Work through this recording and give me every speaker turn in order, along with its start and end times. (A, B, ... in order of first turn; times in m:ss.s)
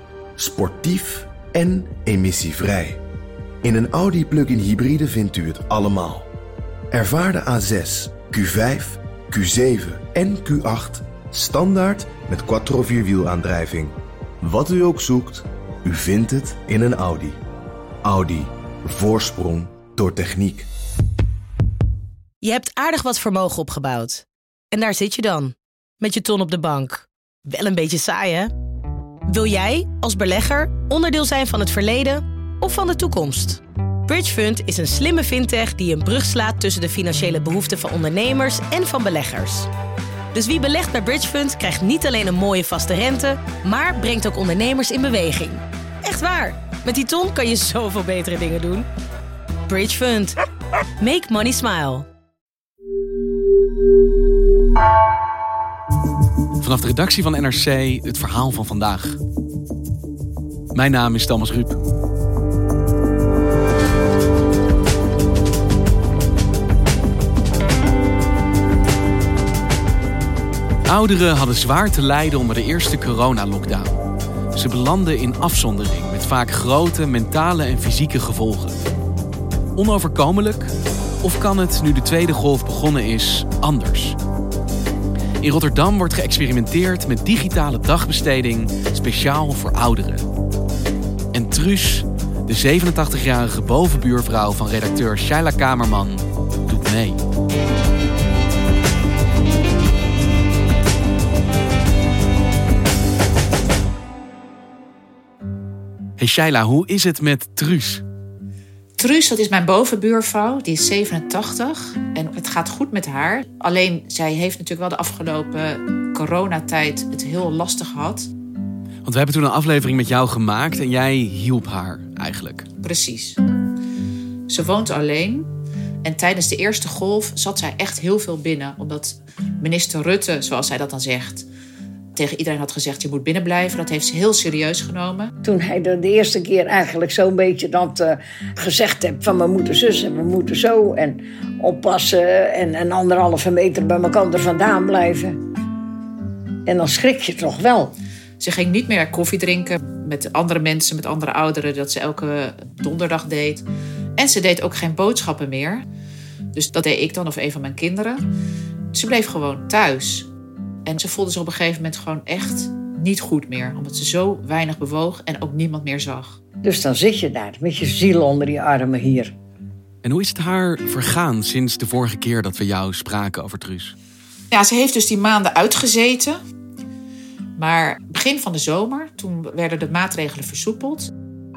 0:00.4-0:03.0 A
0:03.6-0:06.3 A
0:06.9-0:17.4 A
0:18.0-0:20.7 A
0:22.4-0:28.5 B
0:29.3-0:39.7 B
0:40.3-0:48.9 B
0:49.7-0:50.4 B
0:51.0-0:52.0 B
0:56.6-0:59.2 C
1:00.7-1:01.8 C
1:10.8-1:14.0 C
1:14.5-1:18.9 C
1:19.8-1:20.7 C
1:21.2-1:24.2 C
1:25.4-1:30.2 C
1:31.3-1:37.2 C
1:46.2-1:48.0 C
1:49.0-1:58.3 D
1:59.0-2:02.6 C
2:02.8-2:03.4 D
2:04.5-2:05.5 D
2:06.0-2:11.4 D
2:12.2-2:15.3 D
2:15.4-2:25.4 E
2:26.6-2:27.9 E
2:28.4-2:33.6 D
2:34.2-2:35.8 D
2:36.5-2:38.2 D
2:38.9-2:40.3 D
2:40.8-2:46.4 D
2:46.6-2:49.3 E
2:50.0-2:53.9 C
2:54.5-2:56.4 D
2:57.6-3:01.1 D